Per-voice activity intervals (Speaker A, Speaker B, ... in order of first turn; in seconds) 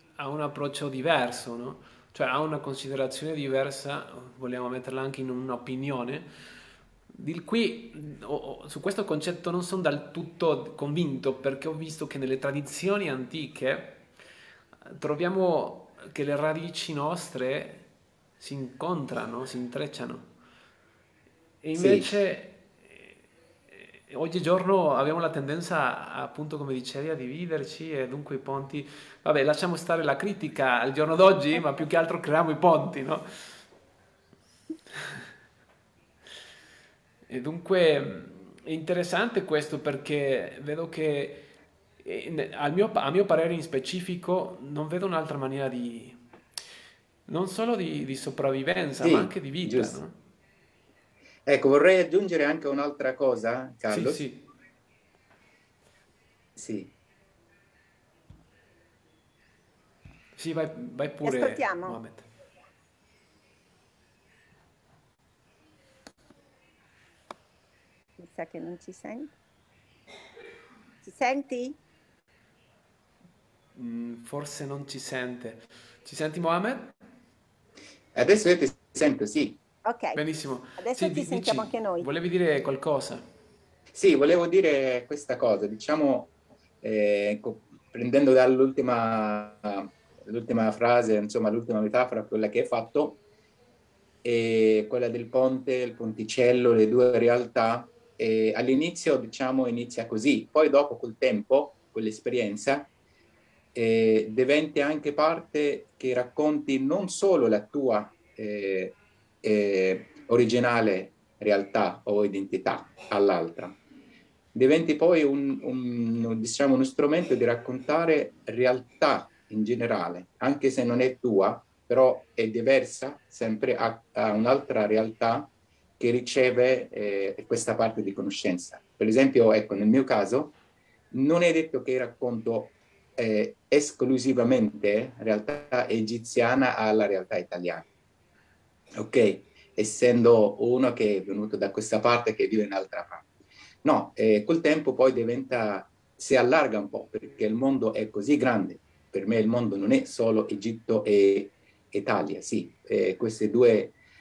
Speaker A: 0.2-6.3, 7.1-14.1, 14.8-17.9, 18.4-20.3, 21.6-23.2, 23.7-33.6, 37.3-41.5, 42.0-46.2, 47.3-50.1, 53.9-54.5, 60.4-62.2, 73.7-76.9, 80.2-83.2
Speaker B: 21.7-22.1, 49.0-50.0, 51.5-54.2, 56.5-56.9, 78.1-79.6, 83.9-93.2, 94.2-102.9, 103.7-113.8, 114.5-130.5, 131.1-137.9, 138.9-143.2, 143.8-153.9
Speaker C: 61.2-62.0, 68.2-69.3, 71.0-71.8, 79.8-80.2, 80.8-82.1